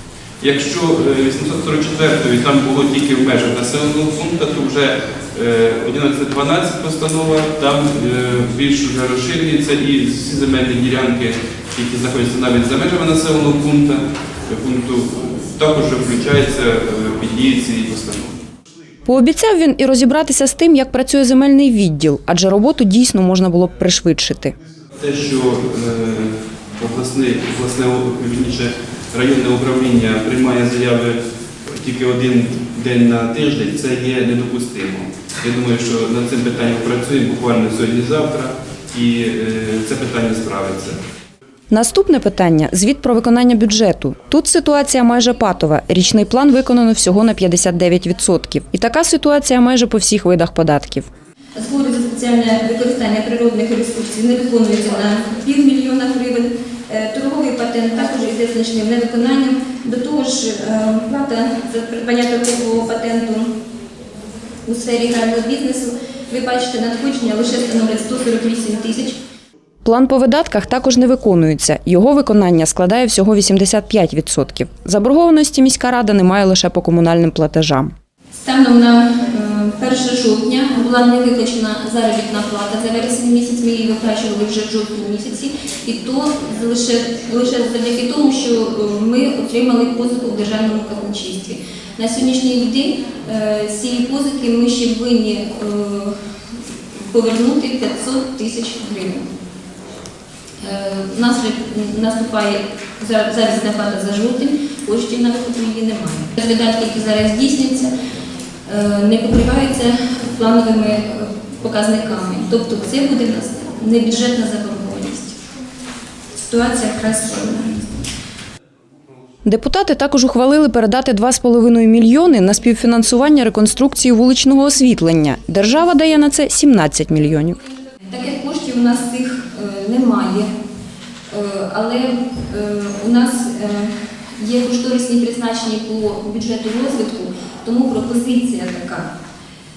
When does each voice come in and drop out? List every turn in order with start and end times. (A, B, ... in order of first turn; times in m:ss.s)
0:00.4-0:18.4 A
0:19.1-0:24.6 B
0:25.0-0:41.0 A
0:41.7-0:51.1 B
0:51.6-1:03.5 C
1:04.7-1:09.2 C
1:09.8-1:17.9 B
1:18.4-1:39.3 C
1:40.6-1:47.9 C
1:48.7-1:55.4 C
1:56.4-1:58.0 C
1:59.4-2:07.6 B
2:08.1-2:10.5 C
2:11.3-2:19.1 C